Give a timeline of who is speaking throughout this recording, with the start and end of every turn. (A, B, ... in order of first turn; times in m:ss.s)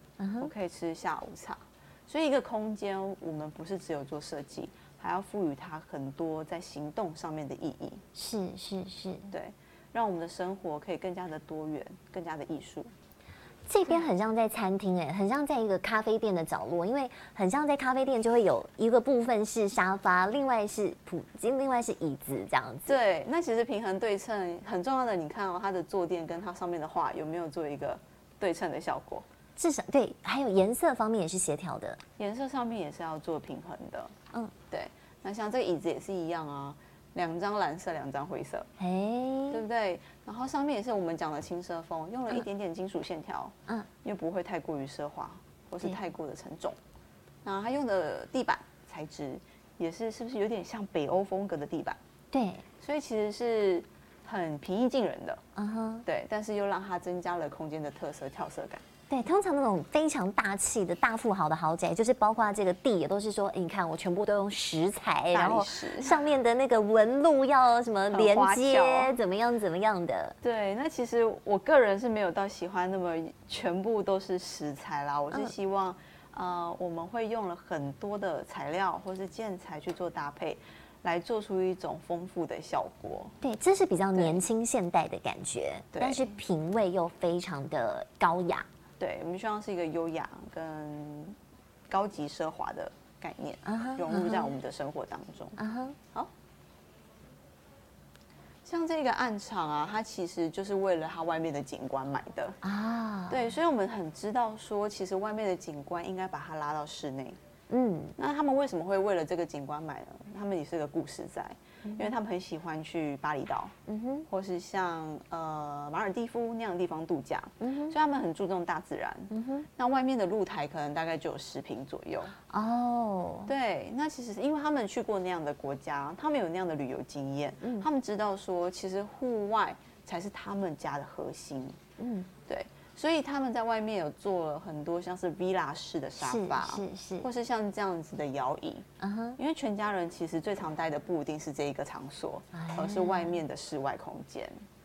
0:00.2-0:00.5 A
0:00.4-0:08.0 B
0:08.2-0:09.3 A
0:09.3-0:12.9 B
0:13.7-0:23.0 A
0:22.9-0:29.3 B
0:29.6-0:32.0 A
0:32.2-0:34.1 B
0:34.7-0:38.7 B
0:38.8-0:39.6 A
0:39.5-0:46.8 B
0:47.4-0:52.0 B
0:52.3-0:52.7 A
0:52.8-0:55.4 B
0:55.6-0:56.0 A
0:56.1-0:58.8 B
0:59.1-1:10.4 A
1:05.3-1:06.3 B
1:08.1-1:09.2 B
1:10.4-1:23.4 B
1:23.4-1:28.7 A
1:24.1-1:24.4 B
1:25.9-1:26.3 B
1:29.0-1:31.4 B
1:31.9-1:35.6 B
1:33.6-1:34.6 A
1:35.6-1:36.0 A
1:38.6-1:42.6 B
1:42.6-1:43.5 A
1:43.3-1:47.4 B
1:47.7-1:48.2 A
1:48.2-1:53.7 B
1:51.8-1:52.1 A
1:53.9-1:54.3 A
1:54.3-2:02.4 B
1:57.6-1:58.0 A
1:59.3-1:59.7 A
2:02.5-2:03.5 A
2:03.5-2:11.8 B
2:07.6-2:07.9 A
2:12.0-2:12.3 A
2:12.5-2:18.9 B
2:16.2-2:17.3 A
2:19.0-2:19.4 A
2:19.4-2:24.6 B
2:22.5-2:23.4 A